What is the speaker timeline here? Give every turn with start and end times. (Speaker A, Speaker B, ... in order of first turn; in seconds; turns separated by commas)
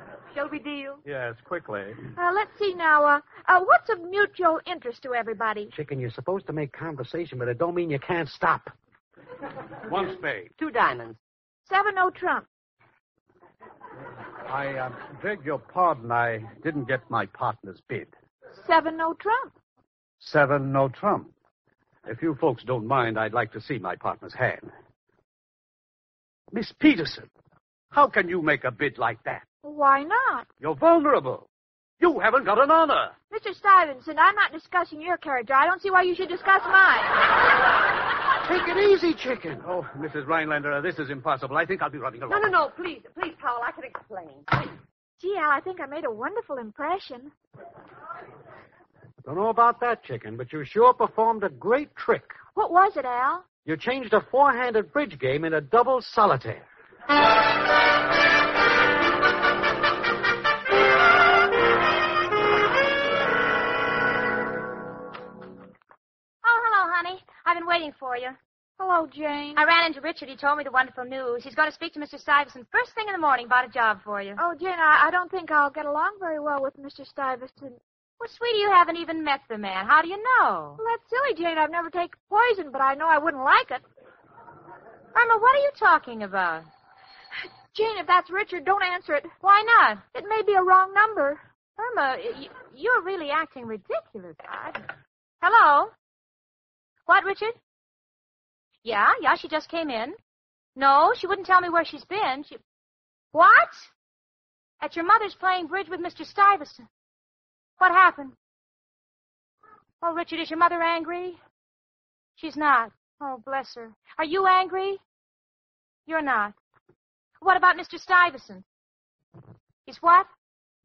Speaker A: 0.3-1.0, Speaker B: 1.0-2.0, Speaker C: 2.1-5.7, Speaker D: 5.7-8.7, Speaker B: 9.9-10.5, Speaker A: 10.6-11.2, Speaker C: 11.7-12.4, Speaker B: 14.5-18.1, Speaker C: 18.6-19.5, Speaker B: 20.2-21.3, Speaker B: 22.0-24.7, Speaker B: 26.5-27.3, Speaker B: 27.9-29.4, Speaker C: 29.6-30.5, Speaker B: 30.6-31.5, Speaker B: 32.0-33.1, Speaker C: 33.3-37.2, Speaker D: 38.4-39.6, Speaker B: 39.6-42.4, Speaker A: 42.3-44.5, Speaker C: 45.2-47.3, Speaker D: 49.2-52.4, Speaker C: 52.5-53.5, Speaker D: 53.6-56.7, Speaker E: 66.4-68.4, Speaker C: 68.8-69.6, Speaker E: 69.5-74.4, Speaker C: 74.4-77.8, Speaker E: 78.2-80.8, Speaker C: 80.8-83.8, Speaker E: 85.1-86.7, Speaker C: 87.7-89.3, Speaker E: 89.4-90.0, Speaker C: 90.1-91.4, Speaker E: 91.8-94.8, Speaker E: 95.4-95.9, Speaker E: 97.1-97.5, Speaker E: 98.8-100.2, Speaker E: 100.8-102.6, Speaker E: 103.3-103.9, Speaker E: 104.8-106.9, Speaker E: 107.8-108.3, Speaker E: 110.0-111.4, Speaker E: 112.4-115.0, Speaker E: 116.1-116.5, Speaker E: 117.4-118.6, Speaker E: 119.8-120.3